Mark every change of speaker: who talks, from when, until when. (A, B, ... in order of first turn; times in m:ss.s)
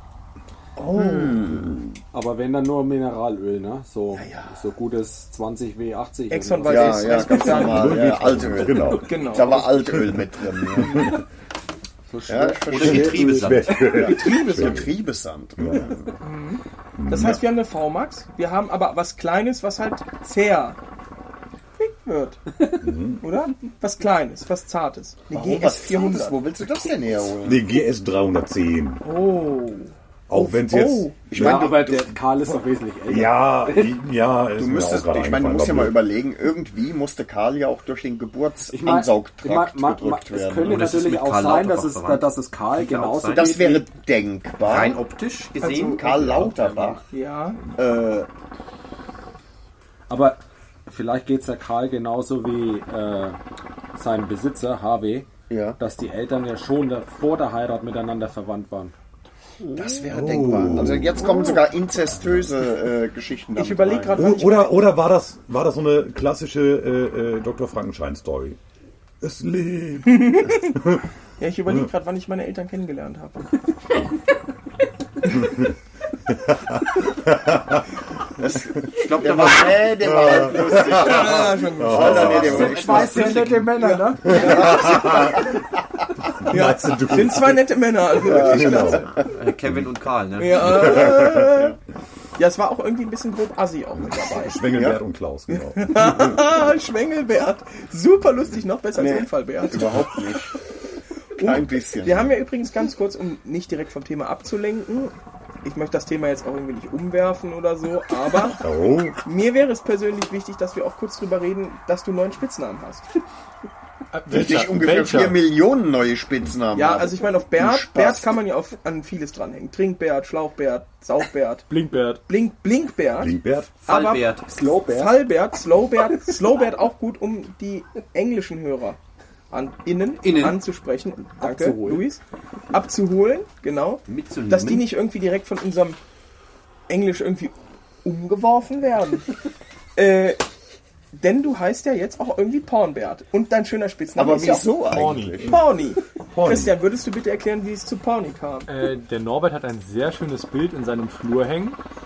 0:00.8-0:01.8 A
0:00.9-0:01.8 B
0:02.1-0:07.6 C
0:04.2-0:04.5 D
0:06.3-0:08.1 D
0:06.7-0:11.2 B
0:07.3-0:09.2 A
0:09.0-0:09.8 D
0:09.7-0:11.2 A
0:12.1-0:13.7 C
0:12.3-0:13.2 B
0:12.7-0:13.8 E
0:12.8-0:14.9 A
0:13.9-0:14.9 D
0:13.9-0:16.1 B
0:15.6-0:15.9 A
0:16.2-0:20.8 D
0:17.0-0:17.4 A
0:21.8-0:22.4 D
0:22.8-0:23.2 A
0:23.2-0:26.4 D
0:25.3-0:27.6 B
0:27.4-0:29.0 A
0:29.0-0:31.2 D
0:30.3-0:36.0 A
0:31.3-0:32.1 B
0:31.3-0:33.9 C
0:34.6-0:40.8 B
0:38.7-0:43.9 C
0:40.6-0:43.6 E
0:43.3-0:45.0 B
0:44.6-0:46.1 E
0:45.6-0:46.0 D
0:45.8-0:47.0 B
0:46.1-0:46.5 A
0:46.4-0:47.0 C
0:47.1-0:47.6 D
0:47.8-0:48.3 B
0:50.1-0:53.4 C
0:53.9-0:58.9 C
0:55.5-0:55.8 B
0:59.7-1:04.4 B
1:00.1-1:01.3 A
1:01.2-1:01.6 D
1:02.2-1:02.5 A
1:03.6-1:04.7 D
1:04.2-1:08.6 A
1:09.2-1:11.0 A
1:10.1-1:10.8 D
1:11.4-1:13.4 D
1:15.3-1:15.7 A
1:16.3-1:17.8 A
1:18.4-1:23.6 B
1:18.9-1:20.0 E
1:20.0-1:23.4 A
1:20.9-1:24.8 D
1:22.4-1:22.8 E
1:22.6-1:24.9 C
1:22.8-1:24.2 F
1:24.2-1:25.6 A
1:24.3-1:25.5 B
1:26.4-1:27.7 A
1:26.5-1:29.1 D
1:28.2-1:29.9 A
1:28.2-1:29.1 B
1:29.3-1:30.9 E
1:30.4-1:31.8 D
1:30.5-1:31.6 A
1:31.4-1:31.7 B
1:32.4-1:34.6 D
1:34.0-1:36.4 A
1:34.7-1:35.0 B
1:35.5-1:40.0 D
1:39.0-1:40.5 B
1:41.4-1:48.6 D
1:41.4-1:42.3 B
1:48.6-1:49.2 A
1:49.2-1:53.0 D
1:54.1-1:55.4 F
1:54.3-1:58.3 B
1:56.7-2:01.7 D
2:01.7-2:02.2 F
2:02.3-2:03.3 D
2:03.2-2:03.7 A
2:03.8-2:04.5 E
2:03.9-2:04.3 D
2:04.5-2:05.2 C
2:04.9-2:09.0 D
2:09.5-2:12.2 D
2:10.2-2:10.6 E
2:11.4-2:12.0 C
2:12.7-2:16.0 D
2:14.1-2:14.9 E
2:16.9-2:19.3 D
2:20.0-2:20.4 D
2:21.1-2:24.7 D
2:24.2-2:25.6 B
2:24.9-2:25.5 F
2:25.4-2:28.7 D
2:26.3-2:26.8 A
2:28.7-2:31.8 F